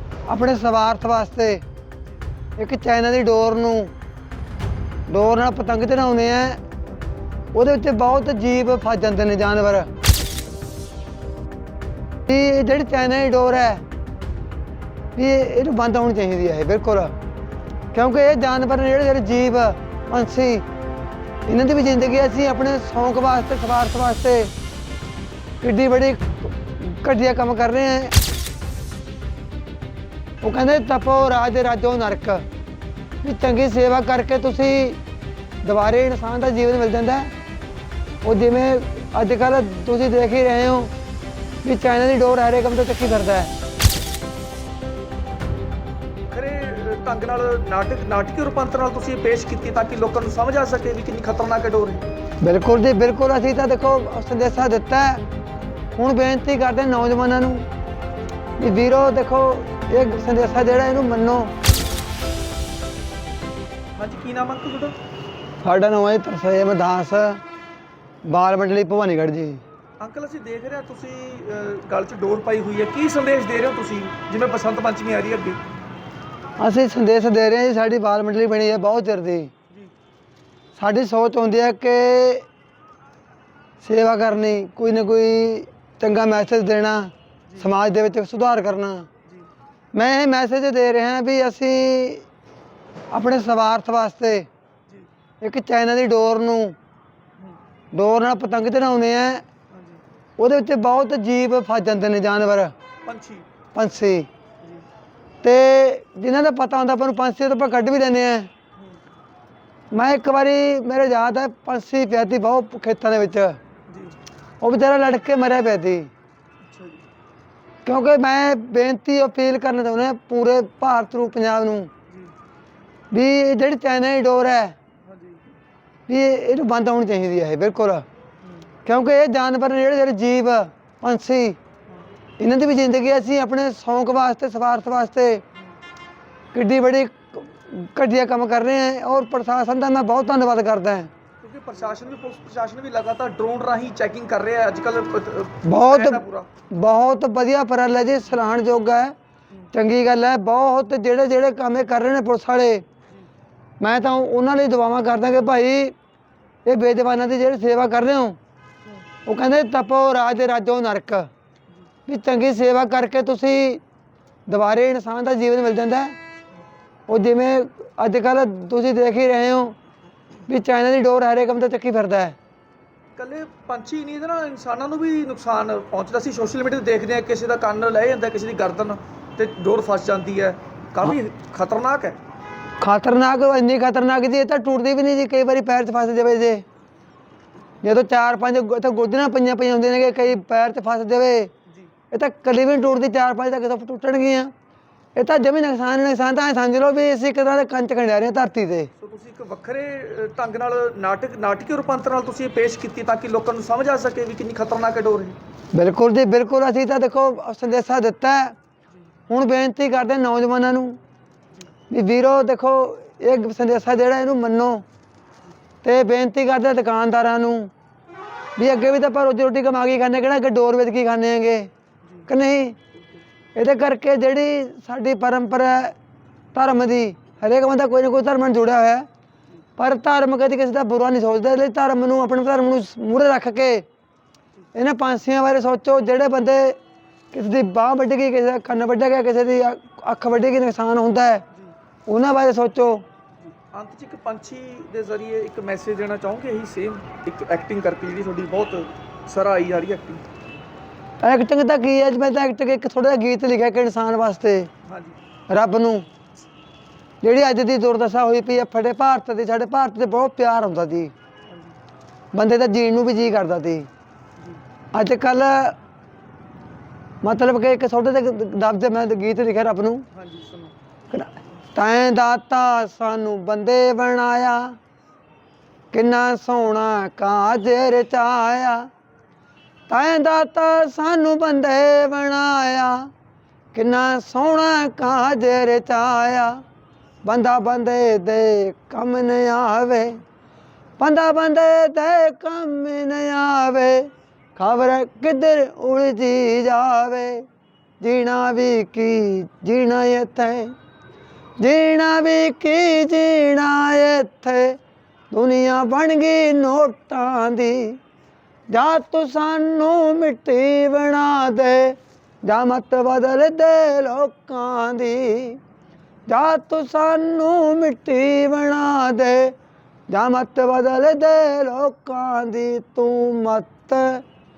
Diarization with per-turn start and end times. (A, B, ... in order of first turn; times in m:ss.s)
0:00.3-0:01.6 A
0:02.6-0:03.9 A
0:05.1-0:06.6 A
0:07.5-0:09.9 A
0:12.3-0:13.8 A
0:15.2-0:17.2 A
0:17.9-0:20.6 A
0:21.5-0:24.5 A
0:25.6-0:28.1 A
0:30.4-0:32.5 A
0:33.2-0:35.0 A
0:35.6-0:37.3 A
0:38.2-0:40.9 A
0:41.6-0:43.5 A
0:46.3-0:52.1 B
0:52.4-0:55.2 A
0:56.0-0:57.7 A
0:58.6-1:01.5 A
1:04.0-1:05.0 B
1:05.6-1:07.4 A
1:08.2-1:09.6 A
1:10.0-1:15.6 B
1:16.6-1:19.5 A
1:20.8-1:22.5 A
1:23.8-1:29.1 A
1:29.9-1:32.3 A
1:33.1-1:34.5 A
1:35.4-1:36.8 A
1:37.9-1:39.4 A
1:39.7-1:40.0 B
1:40.4-1:42.7 A
1:43.0-1:43.5 B
1:43.7-1:44.3 A
1:45.4-1:48.5 A
1:49.9-1:53.6 A
1:53.9-1:54.2 B
1:54.6-1:56.1 A
1:56.6-1:57.0 B
1:57.8-2:01.9 A
2:03.1-2:04.8 A
2:05.0-2:05.4 B
2:06.1-2:08.0 A
2:08.8-2:11.6 A
2:12.4-2:15.4 A
2:16.5-2:21.1 A
2:21.4-2:26.5 B
2:25.6-2:29.2 A
2:29.7-2:32.8 A
2:33.8-2:36.0 A
2:36.7-2:38.4 A
2:39.3-2:41.3 A
2:42.1-2:43.8 A
2:44.5-2:46.2 A
2:47.1-2:49.8 A
2:50.5-2:52.4 A
2:53.2-3:02.2 B
3:02.8-3:06.6 A
3:07.8-3:11.5 A
3:12.1-3:14.5 A
3:15.2-3:18.9 A
3:19.0-3:25.4 B
3:25.7-3:28.6 A
3:29.3-3:31.0 A
3:31.9-3:34.8 A
3:35.8-3:37.7 A
3:38.6-3:41.7 A
3:42.3-3:42.8 A
3:43.6-3:46.0 A
3:46.5-3:49.1 A
3:49.8-3:53.9 A
3:54.7-3:56.8 A
3:57.3-4:01.4 A
4:02.1-4:03.1 A
4:03.4-4:10.2 B
4:11.2-4:14.7 A
4:14.9-4:15.2 B
4:15.5-4:16.1 A
4:17.2-4:21.1 A
4:21.5-4:21.8 B
4:22.3-4:23.9 A
4:24.9-4:25.8 A
4:27.2-4:30.1 A
4:30.1-4:30.8 B
4:31.1-4:34.8 A
4:35.9-4:38.9 A
4:39.9-4:43.1 A
4:43.7-4:46.6 A
4:47.2-4:50.2 A
4:51.0-4:57.5 A
4:58.0-5:00.7 A
5:01.6-5:04.8 A
5:05.3-5:08.0 A
5:08.7-5:15.6 A
5:16.3-5:19.6 A
5:20.1-5:24.2 A